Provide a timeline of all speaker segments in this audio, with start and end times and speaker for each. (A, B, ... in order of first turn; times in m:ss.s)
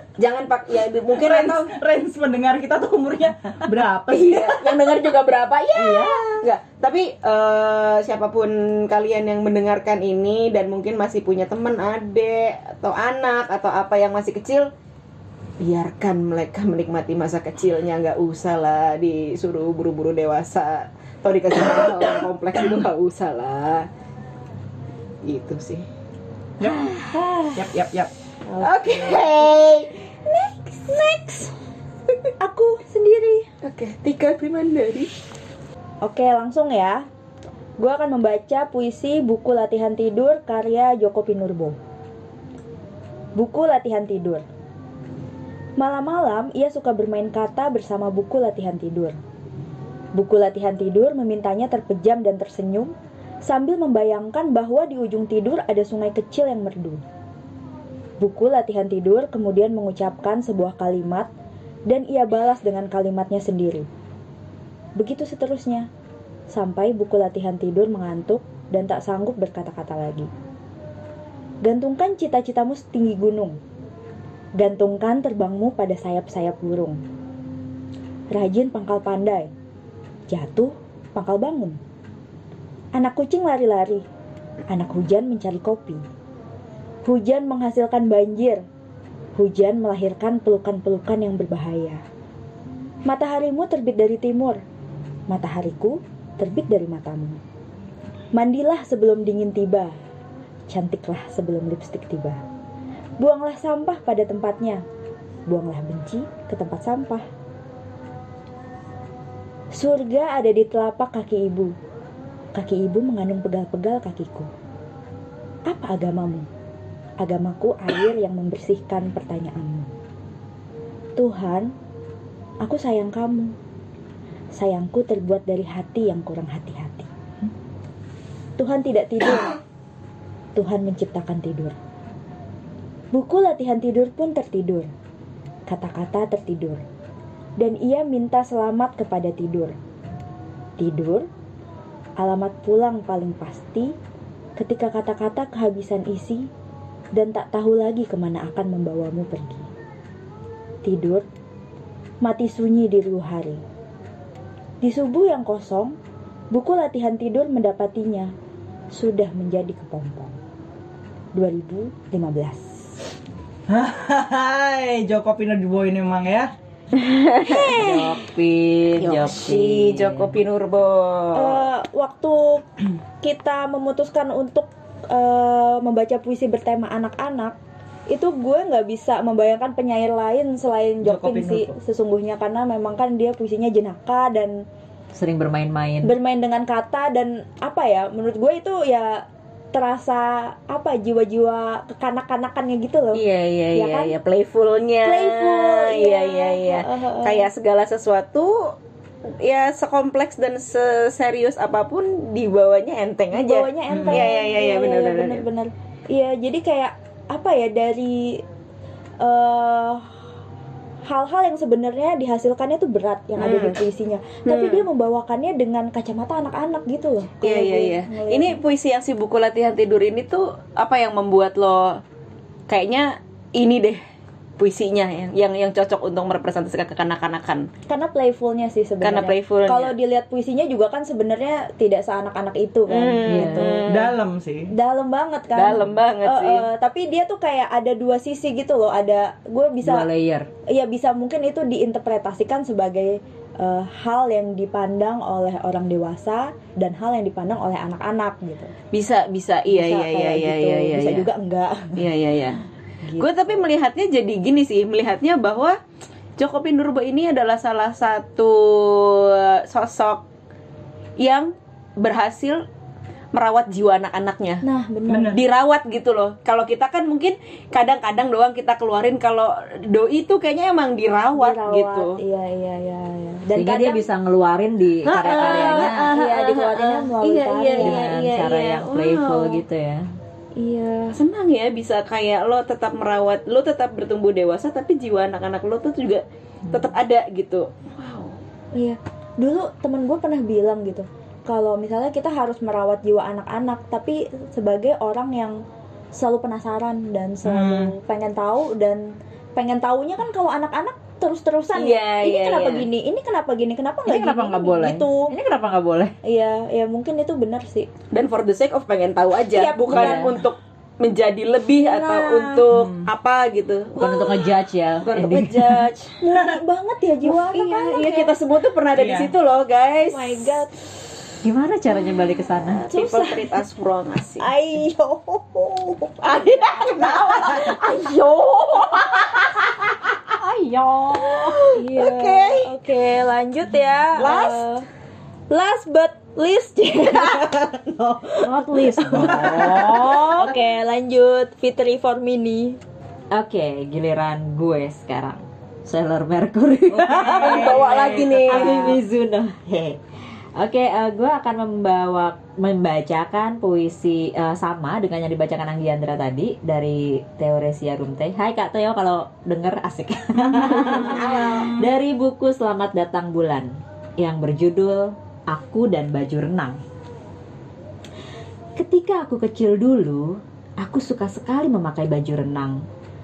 0:00.2-0:01.7 A
0:01.1-0:05.0 B
0:04.1-0:14.7 A
0:05.8-0:06.1 C
0:05.8-0:06.3 B
0:15.6-0:23.9 A
0:25.2-0:25.8 A
0:26.6-0:26.9 B
0:27.1-0:27.6 D
0:27.5-0:28.1 B
0:28.5-0:29.5 D
0:28.6-0:29.9 A
0:30.3-0:31.5 D
0:32.4-0:33.5 D
0:33.6-0:35.1 A
0:36.0-0:37.0 D
0:37.8-0:41.8 D
0:43.3-0:44.4 D
0:45.8-0:49.2 D
0:50.1-0:52.9 D
0:53.4-0:57.0 D
0:58.2-1:01.3 D
1:01.9-1:03.9 D
1:05.0-1:05.9 D
1:06.5-1:10.3 D
1:11.6-1:13.6 D
1:14.6-1:17.0 D
1:18.3-1:19.5 D
1:20.3-1:21.8 D
1:22.9-1:24.0 D
1:24.7-1:26.0 D
1:27.0-1:28.6 D
1:29.4-1:32.0 D
1:33.0-1:34.6 D
1:35.3-1:37.4 D
1:38.3-1:40.0 D
1:40.7-1:42.4 D
1:43.2-1:44.8 D
1:45.5-1:47.2 D
1:49.7-1:51.7 D
1:52.5-1:54.5 D
1:55.7-1:56.5 D
1:57.2-1:59.9 D
2:01.2-2:01.7 D
2:02.6-2:03.5 D
2:04.5-2:07.1 D
2:08.6-2:09.6 D
2:10.6-2:11.7 D
2:13.1-2:14.9 D
2:15.7-2:16.8 D
2:17.6-2:19.7 D
2:20.8-2:21.3 D
2:22.2-2:23.9 D
2:24.6-2:26.5 D
2:27.1-2:29.7 D
2:30.8-2:31.2 D
2:32.2-2:33.6 D
2:34.8-2:36.0 D
2:36.5-2:38.3 D
2:38.9-2:40.4 D
2:41.3-2:43.0 D
2:43.7-2:46.5 B
2:47.0-2:47.6 A
2:47.4-2:48.2 D
2:47.5-2:50.3 C
2:49.0-2:51.6 A
2:51.3-2:52.7 D
2:53.2-2:57.6 D
2:58.1-3:04.6 D
3:01.0-3:01.7 B
3:05.1-3:06.1 C
3:06.0-3:13.2 D
3:13.1-3:18.7 A
3:13.7-3:14.1 D
3:15.0-3:17.5 D
3:19.3-3:25.4 A
3:23.3-3:28.4 D
3:23.9-3:24.2 B
3:29.2-3:30.1 D
3:31.0-3:38.6 D
3:33.4-3:33.8 A
3:34.4-3:34.8 A
3:37.4-3:42.0 A
3:42.7-3:44.0 A
3:44.6-3:47.7 A
3:47.9-3:53.8 D
3:49.0-3:49.9 A
3:52.9-3:54.1 A
3:53.3-3:53.8 C
3:53.9-3:54.7 B
3:54.7-4:00.1 D
3:55.5-3:56.6 A
3:59.8-4:00.5 C
4:00.7-4:08.7 D
4:08.9-4:11.3 A
4:09.7-4:12.0 D
4:12.0-4:12.6 A
4:13.0-4:13.6 D
4:13.2-4:15.8 A
4:16.4-4:20.2 A
4:21.2-4:22.6 A
4:23.3-4:24.6 A
4:24.6-4:25.4 D
4:25.1-4:25.4 B
4:25.3-4:32.2 A
4:31.3-4:34.0 D
4:33.5-4:36.1 C
4:35.0-4:39.6 A
4:35.2-4:38.1 D
4:37.8-4:40.1 C
4:40.6-4:41.2 D
4:41.1-4:48.4 A
4:48.7-4:55.6 D
4:56.1-5:05.3 D
4:57.4-4:57.9 B
5:01.7-5:02.9 A
5:04.0-5:06.1 C
5:06.2-5:07.9 D
5:08.1-5:14.4 A
5:09.5-5:10.3 D
5:09.9-5:10.4 C
5:11.8-5:12.6 D
5:12.7-5:13.1 B
5:14.0-5:15.8 C
5:15.0-5:16.1 A
5:16.2-5:18.3 D
5:17.2-5:20.6 A
5:18.9-5:19.3 B
5:20.1-5:20.7 D
5:21.4-5:22.8 C
5:22.8-5:24.4 A
5:22.9-5:23.6 D
5:24.4-5:27.8 D
5:26.2-5:30.0 A
5:30.3-5:31.6 C
5:31.2-5:32.7 A
5:31.7-5:34.8 D
5:34.2-5:34.7 A
5:35.5-5:42.8 D
5:38.4-5:40.3 C
5:39.1-5:40.0 B
5:43.3-5:50.0 C
5:46.9-5:48.3 B
5:47.3-5:49.0 A
5:47.9-5:48.9 D
5:50.6-6:06.8 C
6:00.4-6:01.7 B
6:00.7-6:01.8 A
6:08.8-6:12.8 C